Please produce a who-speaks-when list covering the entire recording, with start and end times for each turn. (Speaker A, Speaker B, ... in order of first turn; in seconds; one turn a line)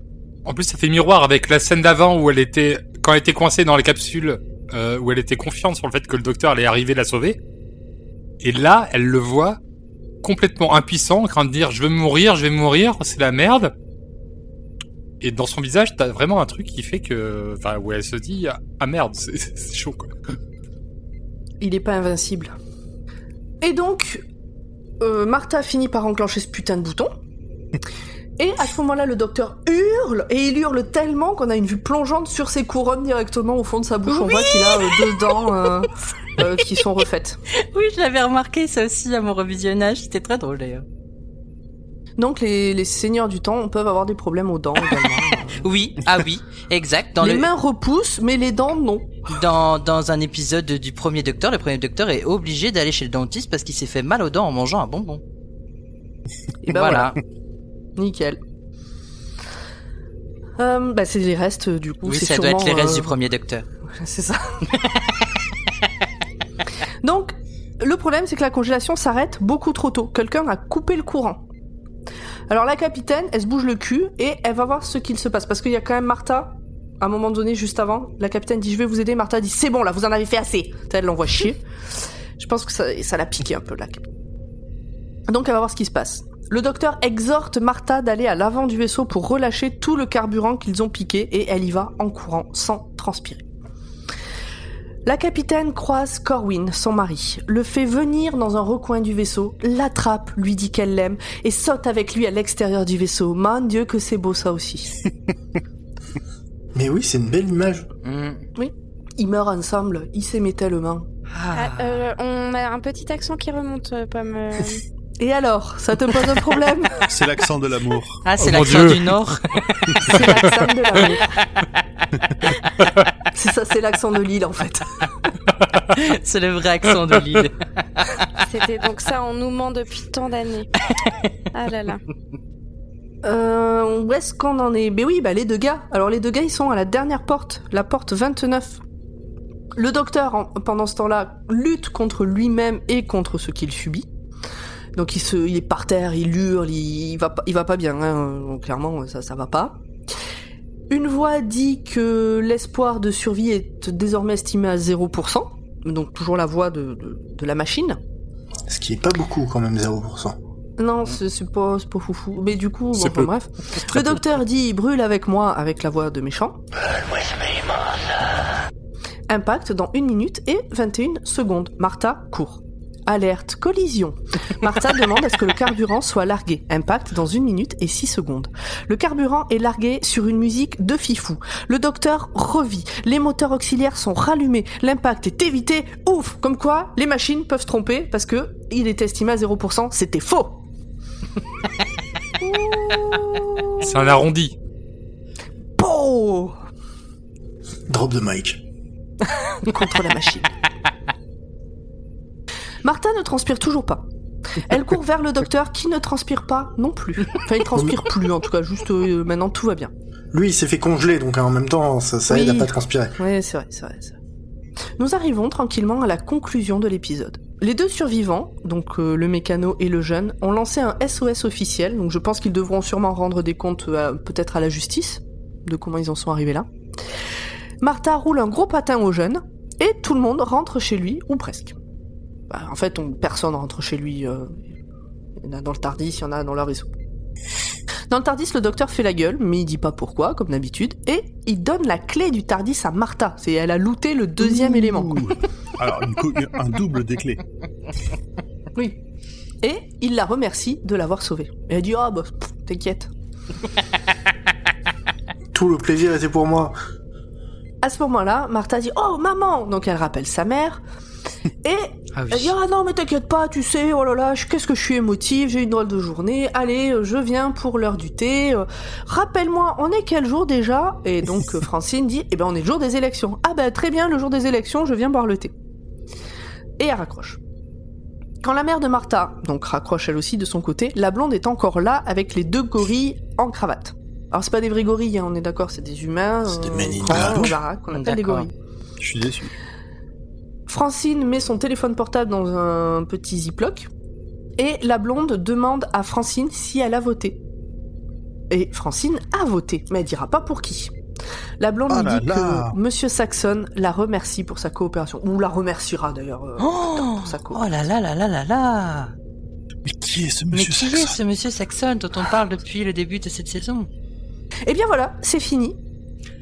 Speaker A: 0.5-7.4
Speaker A: 8.4-9.6
Speaker A: 10.2-13.7
Speaker A: 15.2-20.1
Speaker B: 21.6-22.5
Speaker B: 23.6-24.2
Speaker B: 25.0-27.1
Speaker B: 28.4-37.4
Speaker C: 34.1-35.5
Speaker C: 37.7-40.9
Speaker B: 42.2-45.7
Speaker C: 45.6-47.5
Speaker B: 47.2-49.1
Speaker C: 49.3-55.2
Speaker B: 56.6-57.1
Speaker C: 56.7-57.2
Speaker B: 58.0-58.4
Speaker B: 60.6-63.1
Speaker C: 62.0-63.7
Speaker B: 63.9-64.7
Speaker B: 67.0-71.4
Speaker B: 72.5-81.6
Speaker B: 82.4-84.1
Speaker B: 85.3-93.5
Speaker B: 95.0-104.9
Speaker D: 106.7-107.9
Speaker C: 108.0-108.5
Speaker B: 108.6-111.1
Speaker C: 111.3-112.0
Speaker E: 111.5-114.8
Speaker B: 115.2-117.0
Speaker F: 117.1-118.2
Speaker C: 118.2-120.2
Speaker A: 118.4-119.1
Speaker B: 120.0-121.4
Speaker A: 120.2-120.6
Speaker B: 123.3-124.9
Speaker C: 125.9-128.2
Speaker E: 128.4-130.7
Speaker E: 131.5-132.0
Speaker B: 133.2-138.8
Speaker B: 139.8-144.1
Speaker B: 145.0-149.8
Speaker B: 150.9-158.0
Speaker D: 158.7-160.4
Speaker B: 160.8-166.6
Speaker B: 169.3-190.6
Speaker B: 192.4-194.1
Speaker A: 193.8-194.6
Speaker B: 195.8-196.6
Speaker D: 197.9-198.6
Speaker B: 199.6-200.5
Speaker B: 202.8-204.1
Speaker B: 204.6-209.9
Speaker D: 210.3-213.2
Speaker B: 212.3-214.2
Speaker B: 215.0-226.7
Speaker B: 227.8-231.8
Speaker B: 232.5-234.7
Speaker B: 235.4-236.9
Speaker B: 238.1-245.2
Speaker F: 244.4-247.4
Speaker B: 249.6-253.1
Speaker D: 255.5-256.8
Speaker B: 257.8-260.8
Speaker B: 261.6-275.5
Speaker C: 262.1-262.5
Speaker B: 276.8-277.4
Speaker B: 278.4-288.5
Speaker D: 286.5-287.6
Speaker C: 287.9-288.5
Speaker F: 289.0-289.5
Speaker B: 290.7-293.9
Speaker B: 294.6-297.4
Speaker B: 298.5-300.9
Speaker B: 301.6-307.6
Speaker F: 301.9-302.8
Speaker C: 306.6-309.1
Speaker F: 309.9-311.2
Speaker C: 310.5-313.9
Speaker B: 314.7-315.8